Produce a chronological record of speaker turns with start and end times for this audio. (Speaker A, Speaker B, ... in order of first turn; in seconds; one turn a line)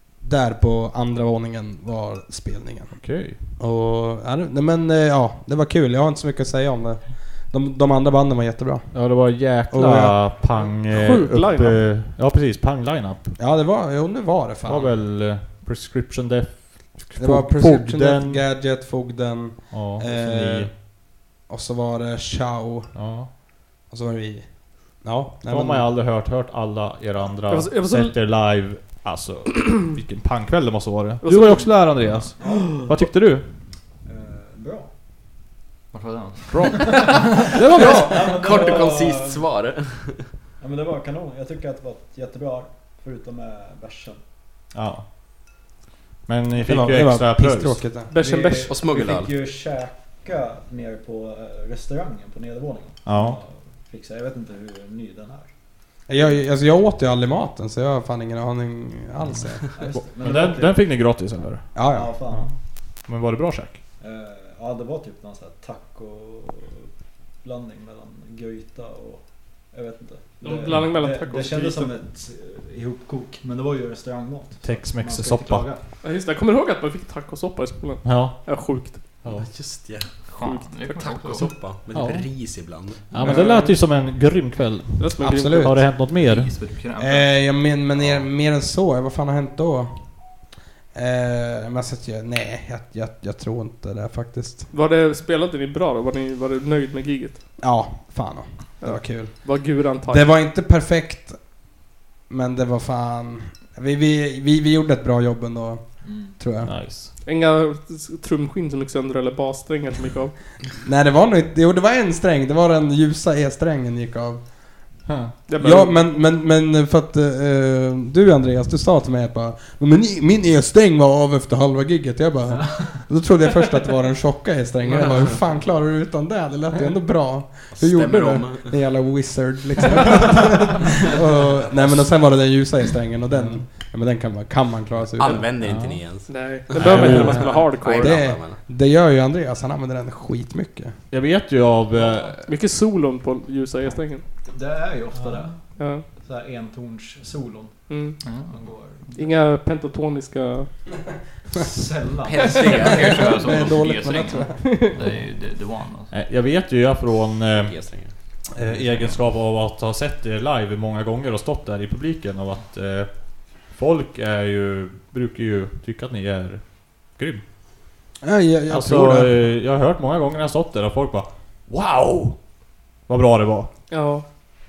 Speaker A: 0.2-10.4
Speaker B: 3.0-3.4
Speaker B: 8.9-13.3
Speaker C: 10.5-11.8
Speaker A: 13.4-14.9
Speaker B: 14.7-18.4
Speaker A: 17.2-25.9
Speaker B: 19.7-20.7
Speaker B: 22.9-23.3
Speaker B: 25.5-33.5
Speaker C: 27.5-28.1
Speaker C: 31.2-32.5
Speaker D: 32.2-33.0
Speaker D: 34.0-34.9
Speaker E: 35.9-37.3
Speaker B: 36.5-38.4
Speaker D: 36.9-39.5
Speaker F: 37.8-40.3
Speaker D: 40.6-44.2
Speaker B: 44.7-45.1
Speaker B: 46.2-47.8
Speaker A: 46.6-48.1
Speaker C: 48.1-48.7
Speaker D: 48.1-55.5
Speaker F: 48.7-49.3
Speaker B: 53.0-53.4
Speaker A: 56.1-59.8
Speaker D: 59.7-61.1
Speaker B: 60.2-63.8
Speaker A: 61.7-62.2
Speaker D: 61.9-62.5
Speaker D: 64.0-75.8
Speaker C: 70.4-72.0
Speaker B: 74.6-75.7
Speaker C: 76.0-79.0
Speaker B: 78.0-78.5
Speaker B: 79.2-79.5
Speaker F: 79.3-83.3
Speaker E: 80.3-81.5
Speaker B: 81.9-86.6
Speaker C: 83.2-83.8
Speaker C: 85.0-85.7
Speaker A: 85.2-85.9
Speaker E: 86.0-87.3
Speaker A: 87.0-94.7
Speaker C: 94.7-97.4
Speaker A: 97.6-101.6
Speaker C: 98.8-100.3
Speaker A: 102.3-106.7
Speaker D: 106.0-106.4
Speaker B: 106.6-107.1
Speaker C: 107.2-110.3
Speaker A: 110.8-114.6
Speaker B: 115.1-115.3
Speaker C: 115.5-116.1
Speaker A: 115.6-135.4
Speaker D: 122.6-122.9
Speaker F: 127.7-128.8
Speaker B: 133.3-133.6
Speaker F: 135.2-138.6
Speaker B: 135.6-136.0
Speaker C: 136.3-138.2
Speaker B: 136.8-137.6
Speaker A: 136.8-140.9
Speaker B: 141.1-142.5
Speaker C: 142.4-144.2
Speaker D: 144.5-149.1
Speaker C: 145.8-146.0
Speaker C: 147.9-148.2
Speaker E: 148.2-148.5
Speaker C: 149.1-150.7
Speaker D: 151.5-153.1
Speaker F: 152.2-153.4
Speaker E: 152.9-156.1
Speaker A: 153.2-154.8
Speaker B: 156.1-158.0
Speaker F: 157.5-158.1
Speaker B: 158.5-167.4
Speaker E: 158.7-159.2
Speaker A: 168.2-169.3
Speaker B: 168.7-172.4
Speaker B: 173.1-173.7
Speaker C: 173.9-174.2